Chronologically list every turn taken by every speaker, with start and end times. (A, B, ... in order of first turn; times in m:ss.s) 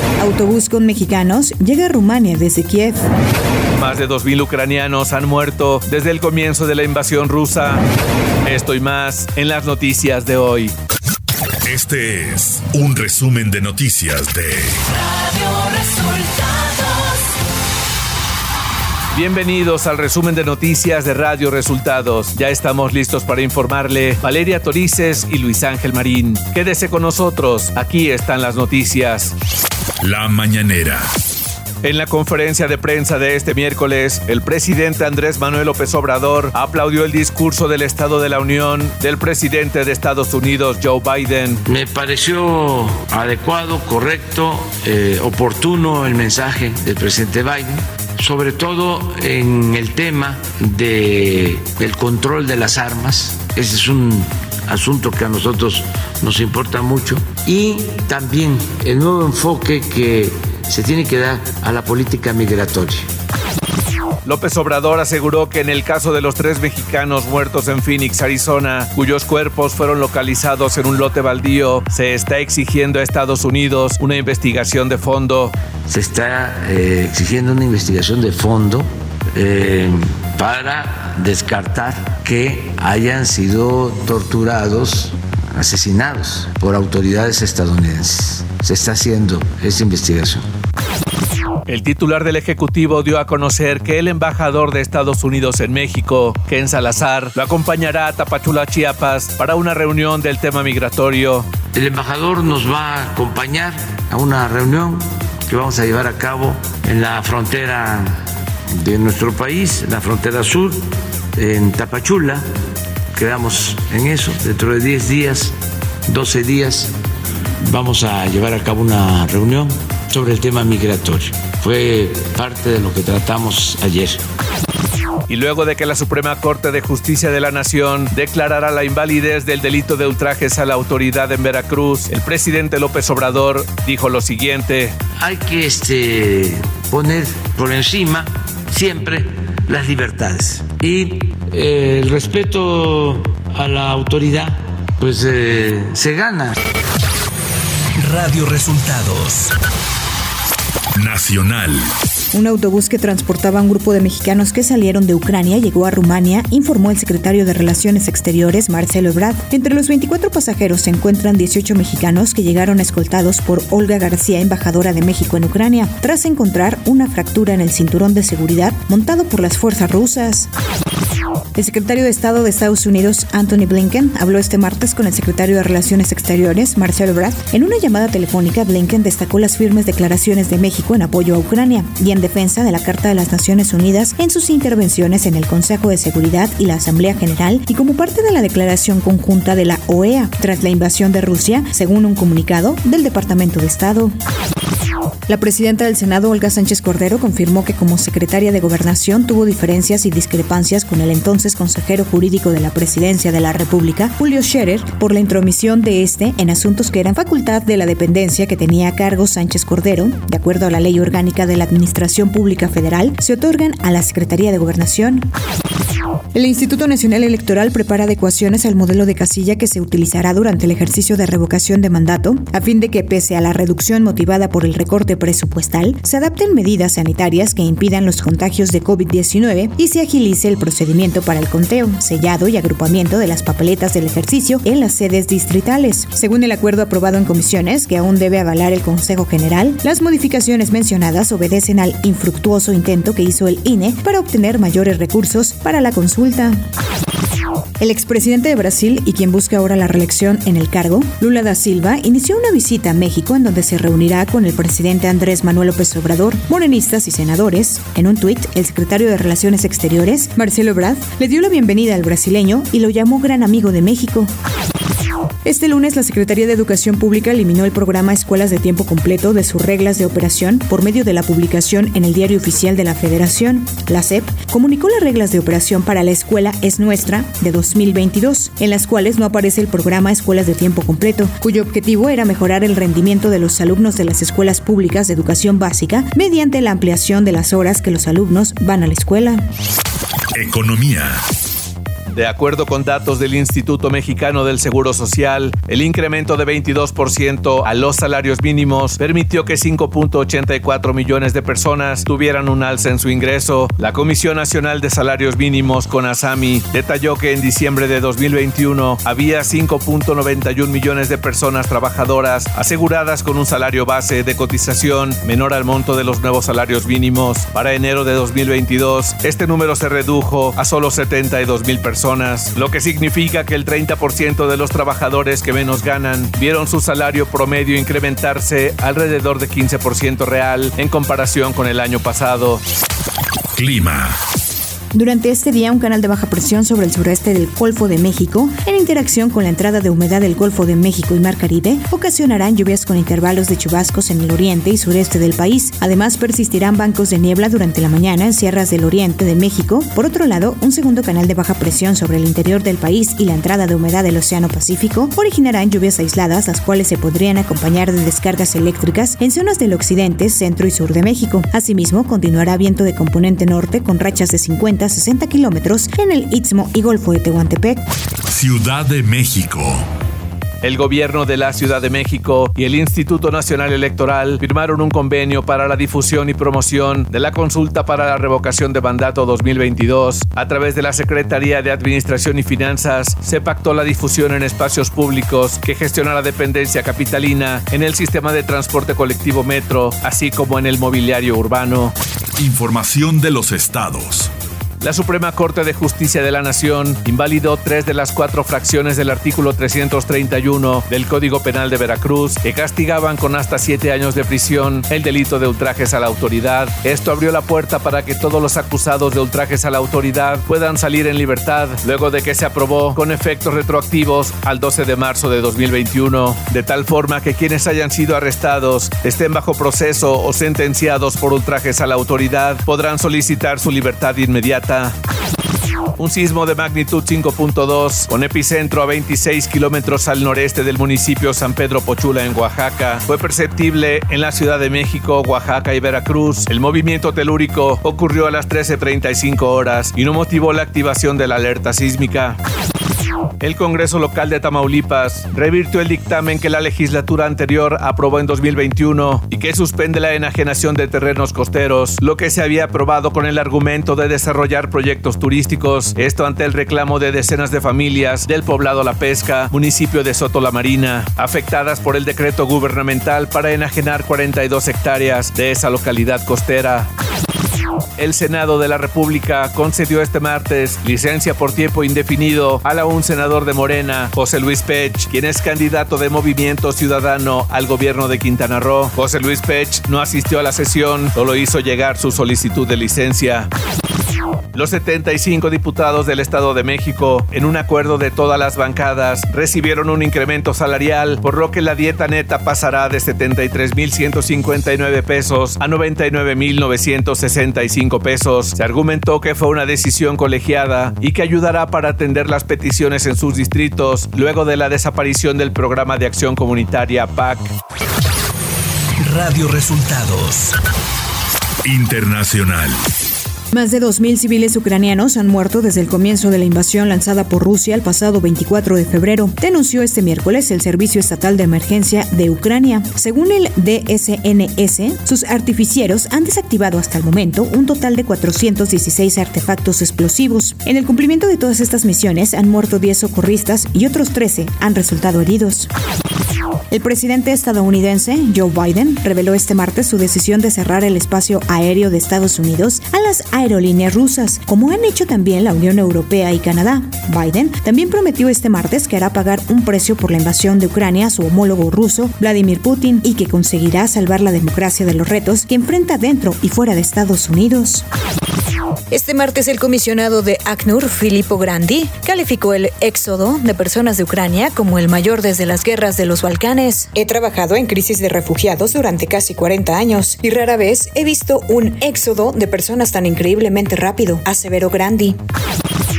0:00.2-0:03.1 A
0:03.8-0:07.8 B
0:08.4-0:10.7 B
0:11.6-0:14.8 C
0:15.1-0:17.0 B
0:19.1-0:29.3 B
0:30.0-0:31.1 C
0:31.8-0:41.6 B
0:41.7-1:03.1 D
1:04.2-1:15.5 B
1:15.9-1:30.5 D
1:31.7-1:41.5 B
1:41.8-1:48.2 D
1:48.7-1:52.4 D
1:53.1-1:55.6 D
1:56.1-1:56.9 D
1:57.6-2:04.2 D
2:05.3-2:15.0 B
2:15.2-2:26.6 D
2:28.0-2:29.5 B
2:31.0-2:31.9 C
2:32.3-2:50.5 A
2:51.6-3:14.1 A
3:15.3-3:35.3 A
3:36.3-4:06.6 A
4:07.8-4:24.3 A
4:25.4-4:49.4 A
4:50.4-4:51.2 C
4:52.1-5:32.6 B
5:33.6-5:34.2 C
5:34.9-6:07.8 A
6:08.3-6:09.9 C
6:10.6-6:31.9 B
6:32.4-6:34.3 C
6:34.8-7:05.0 B
7:06.0-7:22.4 B
7:23.4-7:46.9 B
7:48.0-8:03.5 B
8:04.5-8:27.5 B
8:29.0-8:30.6 B
8:31.6-8:32.8 C
8:33.5-8:55.7 A
8:56.7-9:17.8 A
9:18.9-9:35.2 A